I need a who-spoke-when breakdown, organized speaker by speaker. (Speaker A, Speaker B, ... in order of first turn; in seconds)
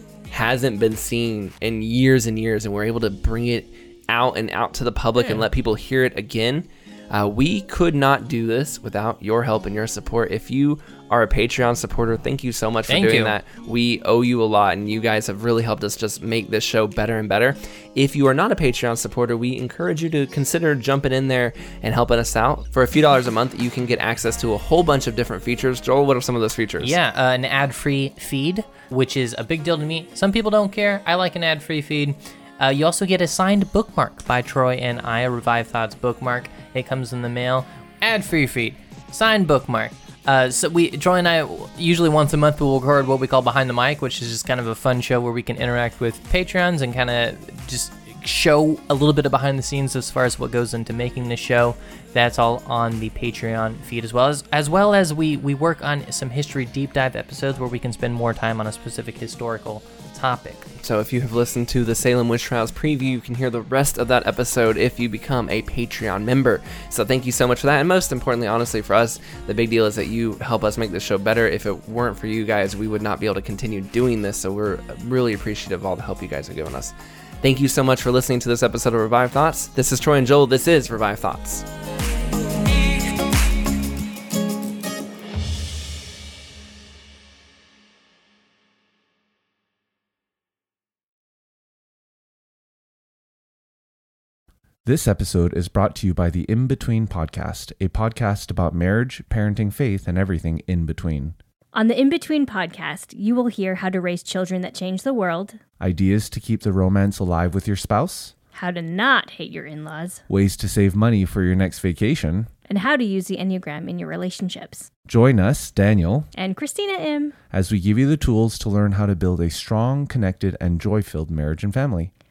Speaker A: 0.3-26.9, 60.8-81.7
Speaker B: 5.2-5.4, 12.9-13.3, 26.8-60.7
Speaker C: 94.8-101.3, 105.8-108.3, 110.3-112.5, 115.0-116.3, 117.5-122.1
Speaker D: 101.7-105.6, 108.5-110.2, 112.7-114.9, 116.3-117.3